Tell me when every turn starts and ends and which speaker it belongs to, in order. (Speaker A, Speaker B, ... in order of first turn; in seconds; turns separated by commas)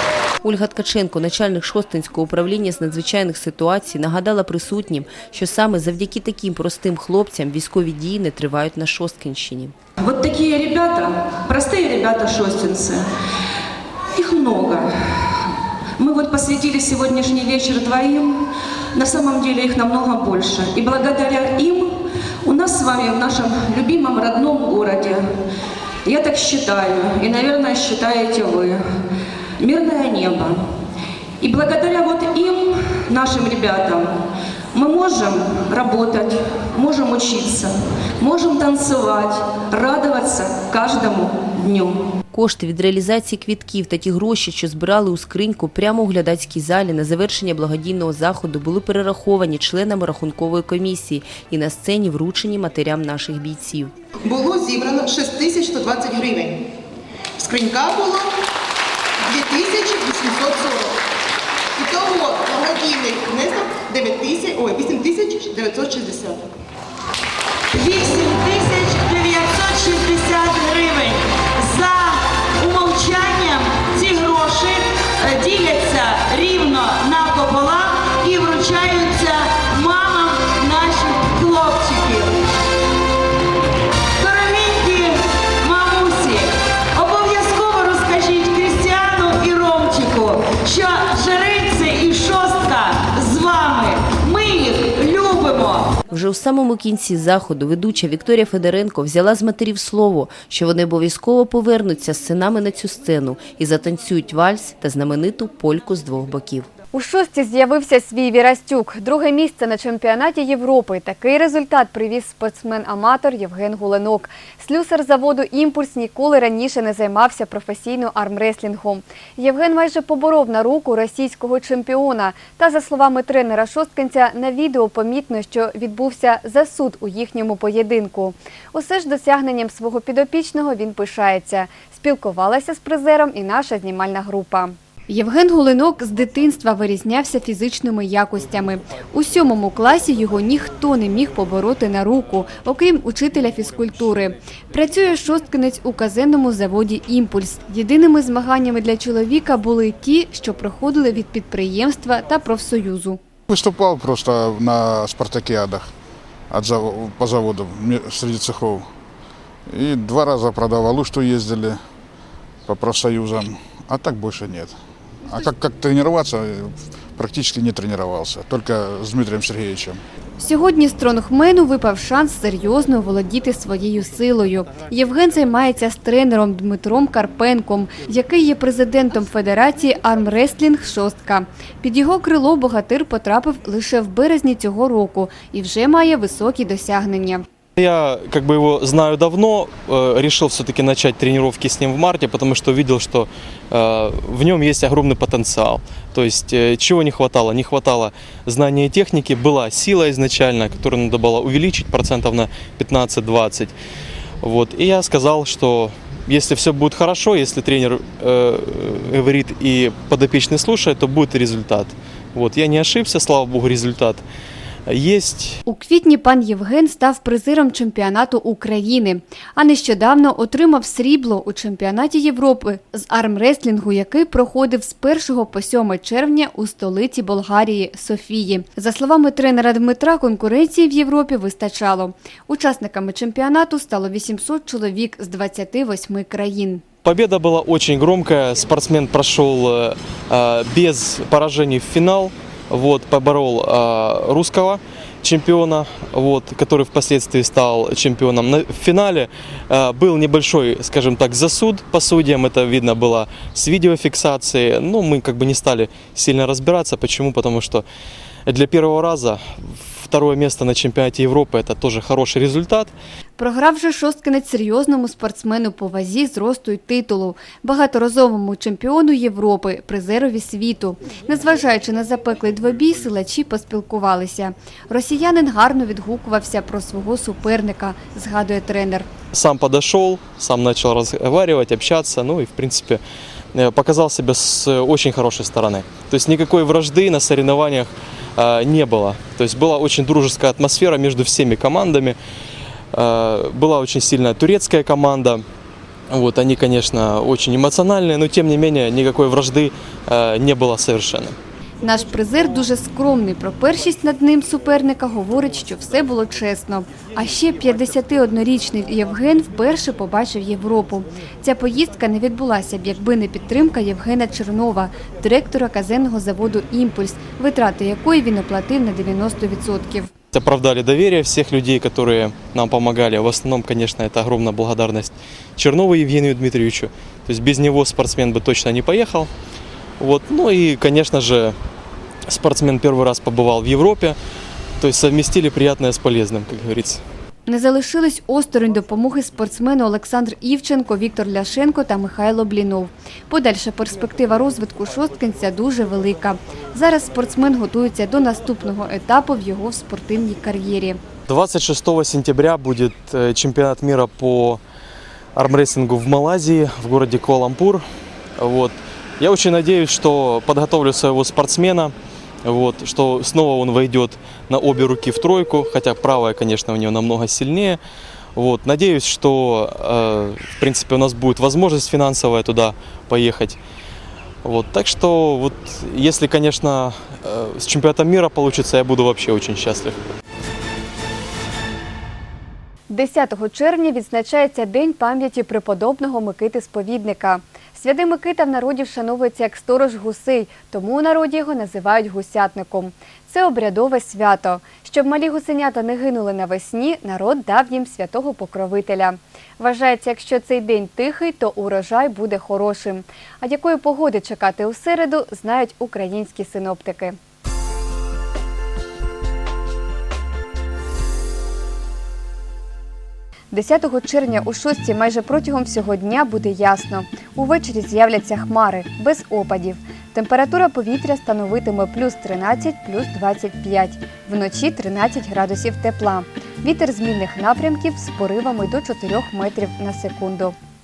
Speaker A: 0.4-9.7, Speaker B: 10.0-13.1, Speaker B: 14.1-25.3, Speaker B: 26.0-28.9, Speaker B: 29.6-30.7, Speaker B: 31.4-34.2, Speaker B: 34.7-42.0, Speaker A: 42.3-53.9, Speaker C: 54.3-56.6, Speaker C: 57.4-58.3, Speaker C: 59.3-60.9, Speaker C: 61.8-66.4, Speaker D: 67.7-82.3, Speaker D: 84.2-95.9, Speaker A: 96.1-106.7, Speaker E: 106.9-153.2, Speaker F: 153.5-155.9, Speaker F: 156.5-158.9, Speaker F: 159.7-161.8, Speaker F: 162.7-170.0, Speaker E: 170.4-187.4, Speaker G: 187.8-203.7, Speaker G: 204.4-214.2, Speaker G: 214.9-215.6, Speaker E: 215.7-236.8, Speaker G: 237.0-257.8, Speaker G: 258.5-262.9, Speaker E: 263.4-279.1, Speaker G: 279.3-283.0, Speaker G: 283.5-292.1, Speaker G: 292.9-295.4, Speaker G: 296.1-301.4, Speaker E: 301.8-320.1, Speaker G: 320.3-329.3, Speaker G: 330.0-331.6, Speaker G: 332.3-334.1, Speaker G: 334.8-337.0, Speaker E: 337.4-351.0, Speaker G: 351.3-354.6, Speaker G: 355.4-357.8, Speaker G: 358.4-361.9, Speaker G: 362.4-367.8, Speaker G: 368.4-373.6, Speaker G: 374.4-379.9, Speaker E: 382.9-407.1, Speaker E: 413.5-430.5